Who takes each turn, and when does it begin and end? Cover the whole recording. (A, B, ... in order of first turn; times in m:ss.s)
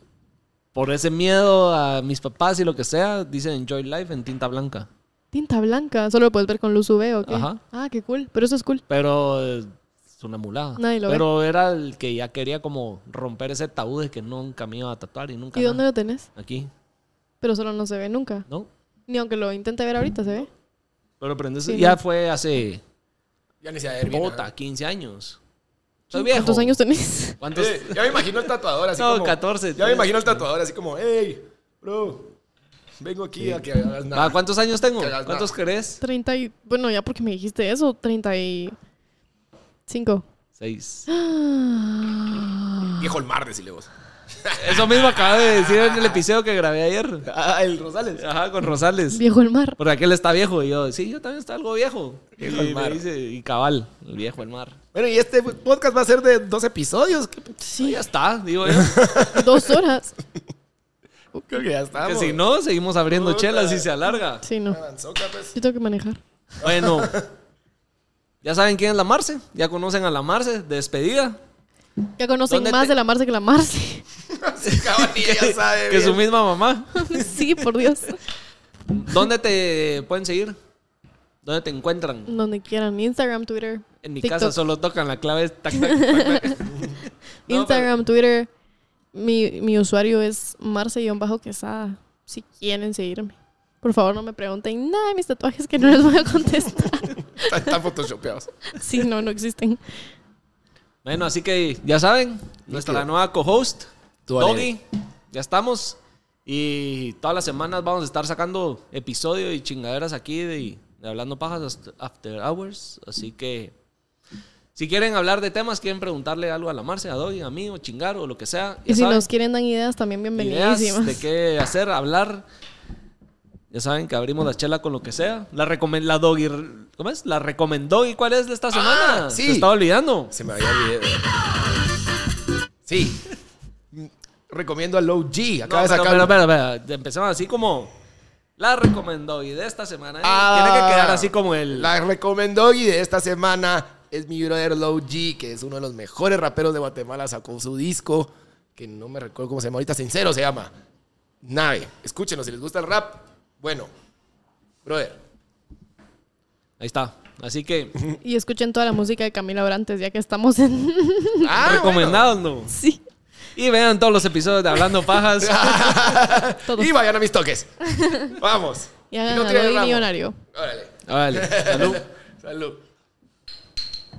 0:00.7-0:04.9 A
0:05.3-0:08.8 B
0:07.3-0:07.6 A
0:08.9-0:15.8 A
0:10.8-0:11.2 B
0:15.6-0:16.3 B
0:16.4-0:16.7 A
0:17.4-0:18.5 B
0:19.1-0:20.5 B
0:21.2-0:22.8 A
0:21.7-0:22.0 B
0:23.6-0:24.5 C
0:24.1-0:25.4 A
0:26.1-0:26.8 A
0:26.1-0:27.4 B
0:27.4-0:28.3 A
0:27.5-0:32.3 C
0:29.0-0:30.4 A
0:33.0-0:34.4 C
0:33.4-0:36.0 A
0:35.0-0:35.5 C
0:36.0-0:38.8 B
0:39.9-0:40.3 B
0:40.6-0:41.1 A
0:41.1-0:43.1 B
0:43.0-0:43.9 C
0:44.4-0:46.2 C
0:44.6-0:47.3 A
0:47.2-0:48.3 C
0:48.2-0:49.2 A
0:49.1-0:49.8 B
0:49.8-0:54.8 A
0:52.4-0:53.0 C
0:54.9-0:57.6 C
0:57.6-0:58.0 B
0:57.8-0:59.0 A
0:58.7-0:59.8 C
0:59.3-1:00.1 B
1:01.5-1:02.4 C
1:02.0-1:04.4 A
1:03.1-1:03.9 C
1:04.4-1:04.8 B
1:04.7-1:05.6 C
1:05.5-1:06.2 B
1:06.6-1:07.2 A
1:06.6-1:07.3 C
1:08.4-1:11.4 A
1:12.2-1:14.0 B
1:12.5-1:12.9 A
1:14.3-1:16.2 C
1:14.6-1:17.3 A
1:17.0-1:18.2 B
1:18.9-1:20.6 A
1:21.4-1:22.3 A
1:22.3-1:24.6 B
1:24.0-1:26.7 A
1:25.7-1:26.7 B
1:27.5-1:28.5 B
1:27.5-1:27.9 A
1:29.1-1:37.8 B
1:37.4-1:38.5 C
1:38.7-1:39.8 B
1:41.0-1:53.8 A
1:42.7-1:43.1 C
1:44.3-1:44.7 C
1:54.8-1:59.3 A
1:58.9-2:01.2 B
2:00.4-2:02.4 A
2:03.7-2:10.3 A
2:08.7-2:09.7 C
2:10.3-2:11.8 C
2:12.9-2:13.2 C
2:13.9-2:16.4 C
2:15.6-2:17.9 A
2:18.6-2:21.9 A
2:20.2-2:30.7 C
2:31.4-2:33.9 C
2:34.8-2:35.2 C
2:36.8-2:38.0 A
2:38.2-2:41.6 B
2:41.4-2:42.3 C
2:41.6-2:42.8 A
2:42.7-2:43.0 B
2:43.6-2:45.9 A
2:45.3-2:52.8 C
2:47.8-2:48.4 B
2:49.1-2:50.4 B
2:51.1-2:52.0 A